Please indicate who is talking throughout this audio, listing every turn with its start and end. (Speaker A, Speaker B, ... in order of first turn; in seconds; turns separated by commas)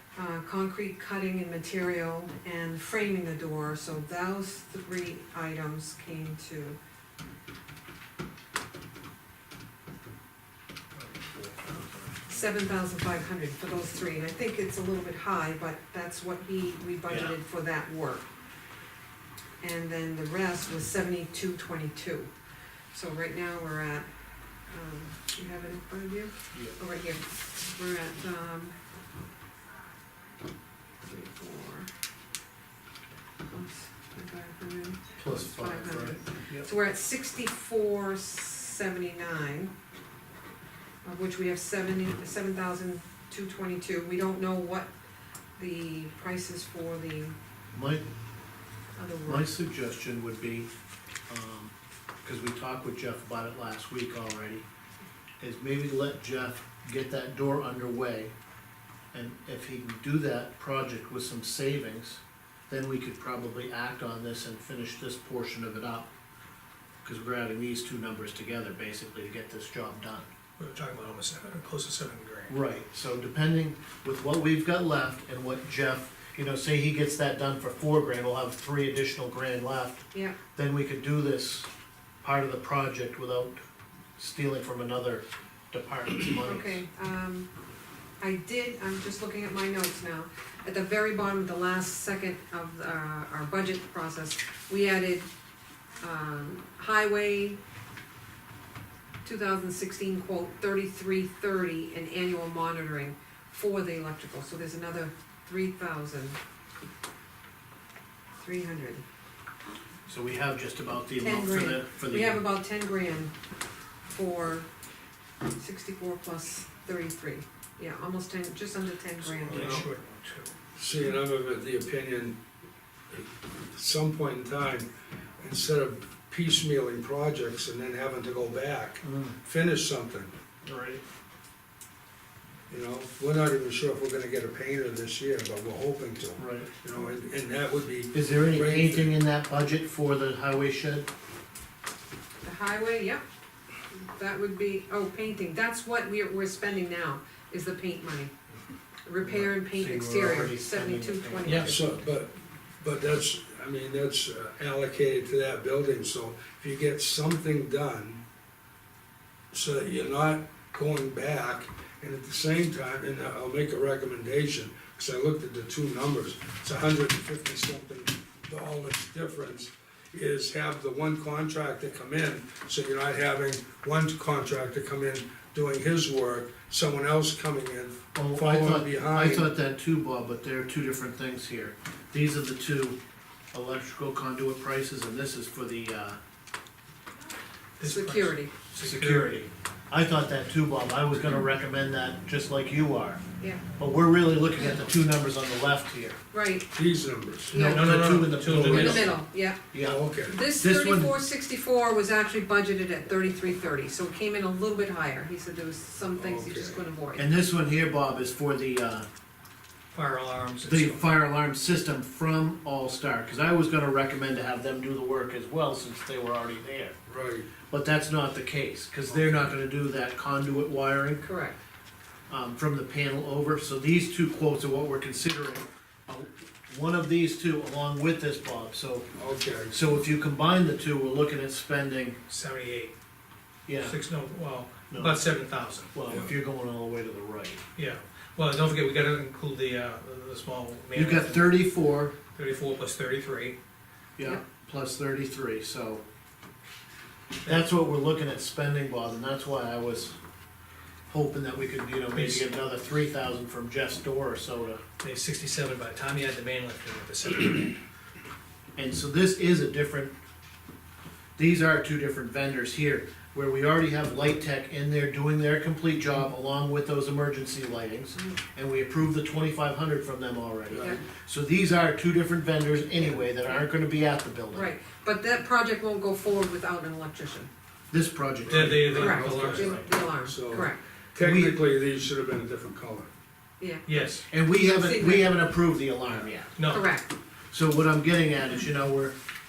Speaker A: 0.1-6.8, Speaker B: 11.0-12.2, Speaker A: 12.3-18.3, Speaker B: 17.1-17.4, Speaker A: 19.6-22.3, Speaker A: 22.9-24.1, Speaker A: 24.7-28.8, Speaker A: 31.0-31.9, Speaker A: 33.5-39.7, Speaker B: 35.2-36.7, Speaker A: 41.0-44.9, Speaker A: 45.6-47.4, Speaker B: 47.7-48.1, Speaker A: 49.0-49.5, Speaker B: 49.3-50.7, Speaker B: 51.3-51.7, Speaker B: 52.2-54.6, Speaker B: 55.4-58.3, Speaker B: 59.1-66.1, Speaker B: 67.0-70.3, Speaker C: 70.6-72.5, Speaker B: 72.5-81.7, Speaker B: 82.2-83.6, Speaker B: 84.2-86.8, Speaker A: 86.4-87.5, Speaker A: 88.2-95.3, Speaker A: 96.0-97.6, Speaker A: 99.2-106.4, Speaker A: 108.4-109.0, Speaker B: 110.1-112.4, Speaker A: 111.2-113.3, Speaker A: 114.1-114.7, Speaker A: 115.5-119.9, Speaker C: 119.4-120.5, Speaker D: 119.5-119.9, Speaker D: 120.8-122.4, Speaker D: 123.7-130.3, Speaker B: 129.0-129.4, Speaker B: 130.7-131.0, Speaker D: 132.7-139.2, Speaker B: 136.4-136.7, Speaker B: 138.1-141.1, Speaker A: 142.4-143.2, Speaker A: 143.9-148.3, Speaker A: 149.1-152.0, Speaker B: 149.2-152.0, Speaker C: 151.4-151.8, Speaker D: 151.7-158.2, Speaker D: 159.5-179.5, Speaker B: 178.2-183.0, Speaker B: 183.5-186.2, Speaker C: 187.8-189.4, Speaker A: 187.8-188.5, Speaker B: 188.8-193.2, Speaker B: 193.8-196.2, Speaker A: 196.3-196.7, Speaker D: 196.7-197.6, Speaker B: 197.5-201.2, Speaker A: 197.5-197.9, Speaker C: 197.6-199.1, Speaker A: 198.5-199.6, Speaker D: 199.8-200.4, Speaker A: 200.3-207.3, Speaker D: 206.2-206.8, Speaker B: 207.2-209.1, Speaker C: 209.9-211.1, Speaker B: 210.6-217.0, Speaker D: 217.1-217.5, Speaker B: 217.7-221.2, Speaker D: 219.1-219.5, Speaker A: 221.2-221.6, Speaker B: 222.3-229.1, Speaker D: 229.2-229.8, Speaker B: 229.7-232.2, Speaker C: 232.3-232.9, Speaker B: 233.7-234.0, Speaker C: 233.8-235.9, Speaker B: 234.9-235.2, Speaker B: 235.9-237.6, Speaker D: 236.1-236.3, Speaker C: 237.8-241.6, Speaker B: 240.9-242.2, Speaker C: 242.3-243.6, Speaker B: 244.2-246.0, Speaker B: 247.4-250.2, Speaker B: 251.1-254.8, Speaker C: 252.1-252.5, Speaker C: 255.0-257.8, Speaker B: 258.8-260.1, Speaker B: 261.4-274.7, Speaker A: 270.8-271.0, Speaker A: 273.0-273.6, Speaker A: 274.5-277.5, Speaker B: 277.9-279.2, Speaker C: 278.5-279.9, Speaker D: 278.5-283.1, Speaker A: 278.9-280.8, Speaker B: 281.2-281.6, Speaker A: 283.6-283.9, Speaker C: 283.9-284.3, Speaker B: 284.3-286.6, Speaker A: 284.5-285.4, Speaker C: 286.6-286.9, Speaker A: 286.7-287.1, Speaker B: 287.5-289.1